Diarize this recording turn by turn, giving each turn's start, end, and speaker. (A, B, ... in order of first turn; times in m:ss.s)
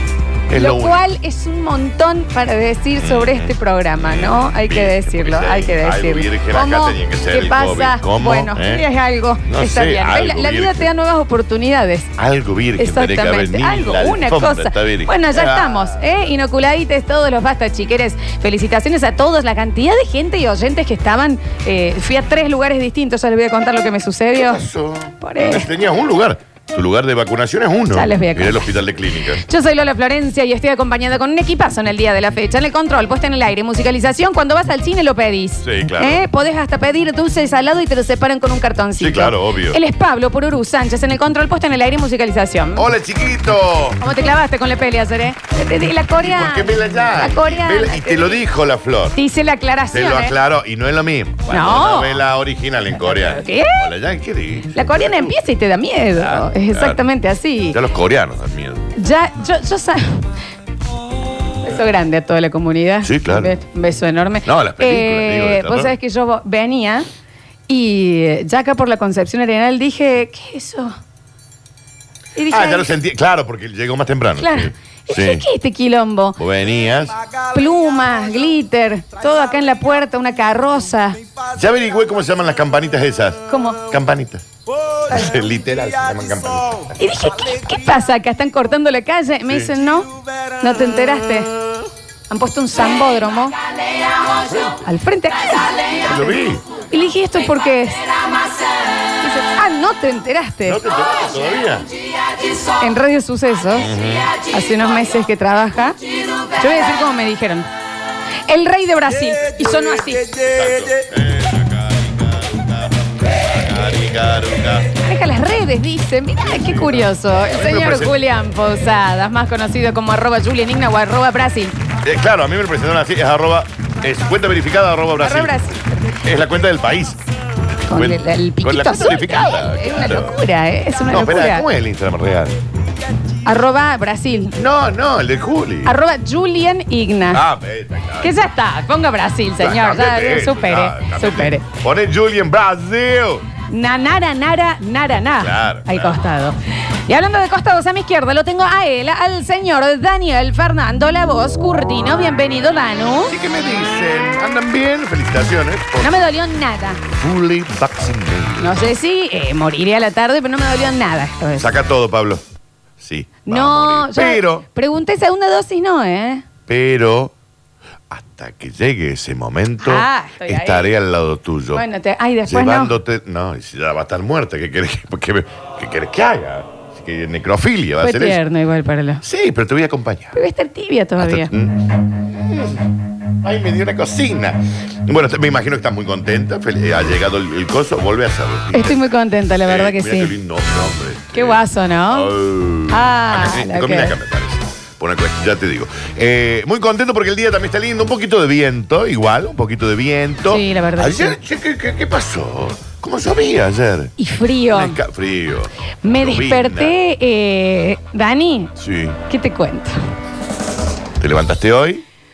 0:00.5-0:01.0 A
0:00.5-0:12.1 B
0:03.0-0:08.8 A
0:09.5-0:10.9 A
0:12.2-0:15.9 A
0:12.8-0:24.6 B
0:24.3-0:29.4 A
0:25.2-0:25.7 B
0:27.9-0:28.7 B
0:29.3-0:42.9 B
0:35.6-0:36.2 A
0:39.0-0:39.8 A
0:42.8-0:44.0 A
0:44.0-0:48.4 B
0:46.2-0:49.2 A
0:49.1-0:50.3 B
0:49.9-0:55.4 A
0:51.5-0:52.2 B
0:53.0-0:53.9 B
0:54.7-0:57.8 B
0:56.1-0:57.0 A
0:57.7-0:58.8 A
0:58.9-1:00.2 B
1:01.6-1:07.0 B
1:03.0-1:03.5 A
1:04.4-1:05.9 A
1:07.7-1:10.9 B
1:12.4-1:12.9 B
1:12.5-1:15.4 A
1:14.4-1:16.4 B
1:16.4-1:17.2 A
1:17.5-1:21.2 B
1:21.5-1:24.4 A
1:23.5-1:23.8 B
1:25.1-1:27.0 A
1:27.0-1:31.5 B
1:32.3-1:33.6 B
1:34.4-1:34.8 A
1:34.8-1:38.3 B
1:36.1-1:36.6 A
1:38.8-1:40.8 B
1:40.6-1:41.9 A
1:42.6-1:47.7 B
1:43.8-1:44.3 A
1:48.5-1:50.4 B
1:50.3-1:54.9 A
1:55.0-2:01.7 B
1:56.4-1:58.2 A
2:02.0-2:05.6 A
2:05.2-2:06.2 B
2:06.2-2:07.2 A
2:07.9-2:11.6 B
2:07.9-2:10.3 A
2:11.1-2:12.6 A
2:13.4-2:14.6 B
2:14.6-2:15.9 A
2:15.8-2:17.4 B
2:17.3-2:18.3 A
2:18.2-2:21.6 B
2:19.6-2:23.4 A
2:23.7-2:33.4 B
2:25.3-2:26.2 A
2:33.3-2:36.2 A
2:36.0-2:37.0 B
2:37.1-2:38.9 A
2:38.6-2:41.7 B
2:41.6-2:42.4 A
2:43.0-2:44.6 A
2:43.4-2:46.4 B
2:46.7-2:47.3 A
2:48.1-2:51.8 A
2:49.8-2:50.9 B
2:51.7-2:53.0 B
2:52.5-2:58.4 A
2:58.0-2:59.2 B
2:59.2-3:00.4 A
3:00.3-3:01.5 B
3:01.2-3:02.8 A
3:03.4-3:09.0 A
3:08.7-3:10.3 B
3:09.6-3:24.1 A
3:11.3-3:12.3 B
3:12.9-3:14.2 B
3:20.4-3:21.4 B
3:24.2-3:25.0 B
3:24.7-3:27.0 A
3:26.0-3:28.7 B
3:28.8-3:29.2 A
3:29.3-3:30.0 B
3:31.2-3:32.0 A